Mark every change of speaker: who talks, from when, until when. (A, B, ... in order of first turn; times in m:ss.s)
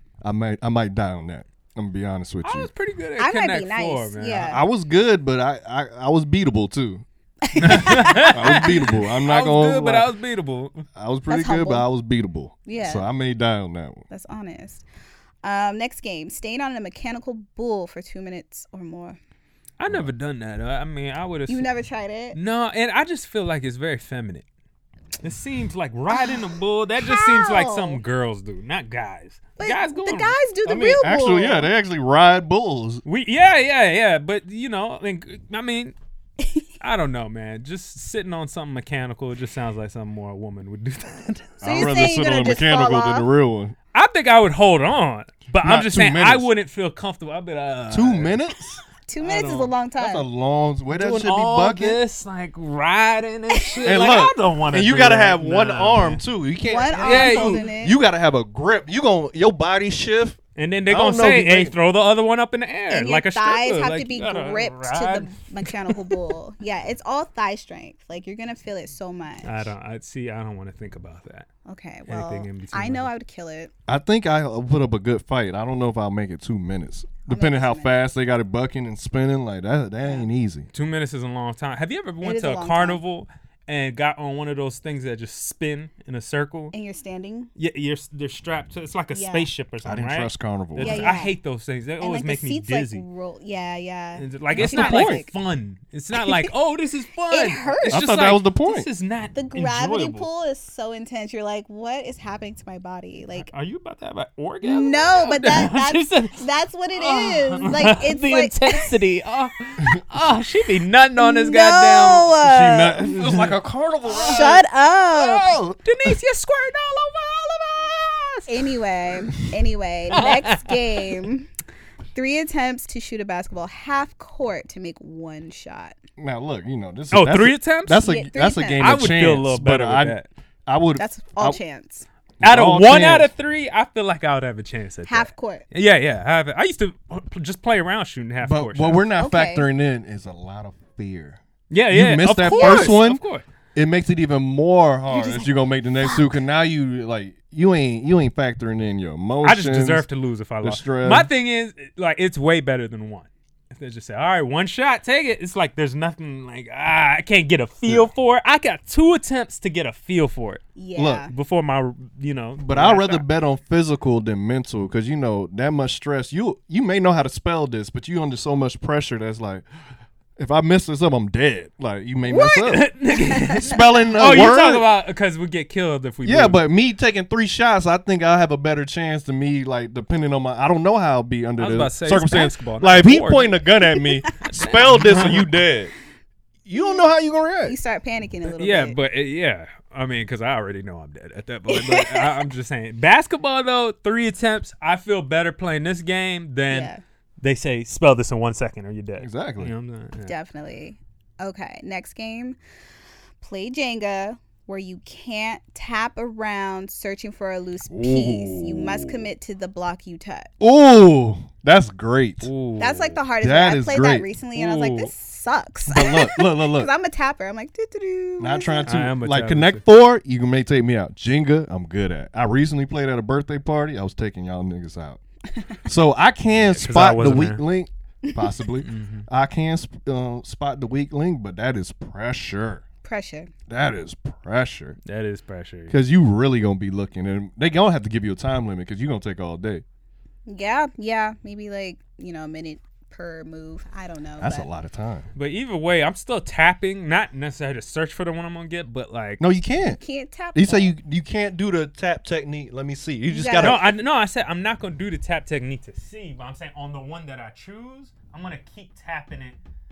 0:00.2-0:02.7 A
0:02.4-0:04.6 B
0:03.2-0:04.6 C
0:04.5-0:07.0 A
0:07.4-0:08.7 C
0:07.6-0:10.8 B
0:07.6-0:10.1 A
0:11.0-0:14.1 A
0:11.3-0:11.9 C
0:12.7-0:13.1 C
0:14.1-0:14.8 C
0:15.4-0:19.2 C
0:19.8-0:21.7 B
0:21.5-0:22.4 C
0:22.3-0:24.4 B
0:25.2-0:30.4 B
0:26.1-0:28.0 C
0:29.6-0:31.7 C
0:30.6-0:33.0 A
0:33.0-0:36.0 B
0:36.4-0:36.7 C
0:36.8-0:41.6 B
0:41.6-0:43.8 A
0:41.6-0:43.3 C
0:43.9-0:48.5 B
0:45.6-0:46.5 A
0:47.9-0:48.8 A
0:49.1-0:50.2 C
0:49.2-0:49.7 B
0:50.0-0:52.0 A
0:50.9-0:56.2 B
0:53.8-1:01.8 A
0:56.6-0:58.0 C
0:57.0-0:57.7 B
1:00.6-1:06.2 B
1:02.9-1:09.7 C
1:09.4-1:11.5 B
1:11.7-1:13.7 C
1:12.1-1:13.1 B
1:13.9-1:20.7 A
1:17.3-1:18.0 C
1:20.7-1:26.7 B
1:22.2-1:23.0 C
1:26.7-1:27.5 C
1:27.6-1:33.0 B
1:29.1-1:29.5 C
1:29.8-1:31.1 A
1:30.8-1:31.3 C
1:32.0-1:35.3 C
1:34.2-1:40.3 B
1:34.5-1:35.2 A
1:36.2-1:36.5 C
1:37.3-1:38.0 C
1:37.9-1:38.9 A
1:39.3-1:43.5 C
1:43.4-1:46.4 B
1:44.6-1:49.0 C
1:46.9-1:52.4 B
1:51.2-1:53.3 C
1:52.4-1:54.6 A
1:53.1-1:53.5 B
1:54.1-1:54.5 B
1:54.2-1:55.5 C
1:55.2-1:55.8 A
1:55.8-1:58.7 B
1:58.5-2:01.5 C
2:00.1-2:01.0 B
2:02.2-2:06.0 C
2:06.2-2:11.6 A
2:07.1-2:08.0 B
2:08.0-2:09.0 C
2:08.8-2:10.3 B
2:11.0-2:12.1 C
2:12.4-2:13.3 A
2:12.4-2:19.0 B
2:15.1-2:15.6 C
2:18.4-2:23.2 A
2:19.2-2:19.7 C
2:21.7-2:23.4 B
2:22.4-2:23.0 C
2:23.8-2:30.1 A
2:25.1-2:25.5 B
2:29.4-2:40.6 B
2:30.6-2:31.3 A
2:40.8-2:41.3 C
2:41.0-2:41.3 A
2:41.2-2:43.2 B
2:42.6-2:49.6 A
2:50.4-2:54.9 A
2:52.5-2:56.6 B
2:56.2-3:05.9 A
3:01.6-3:03.5 B
3:04.5-3:05.5 B
3:06.7-3:07.8 A
3:07.6-3:09.0 C
3:08.5-3:20.3 B
3:11.7-3:12.4 C
3:16.7-3:17.0 C
3:19.2-3:19.7 A
3:20.3-3:22.6 C
3:23.4-3:30.5 C
3:27.9-3:29.3 A
3:30.6-3:32.5 A
3:32.4-3:33.2 B
3:32.8-3:38.9 C
3:33.4-3:34.3 A
3:34.6-3:35.1 B
3:35.9-3:36.9 A
3:38.4-3:45.2 A
3:38.9-3:39.8 B
3:45.8-3:52.8 A
3:46.7-3:47.6 B
3:48.8-3:49.3 B
3:53.0-3:53.5 C
3:53.7-3:55.0 A
3:55.0-3:56.0 B
3:55.9-3:59.8 A
4:00.5-4:04.7 C
4:04.4-4:05.3 A
4:05.4-4:09.4 B
4:09.4-4:10.0 A
4:09.8-4:10.9 C
4:10.5-4:13.9 A
4:13.3-4:13.8 C
4:13.6-4:19.6 B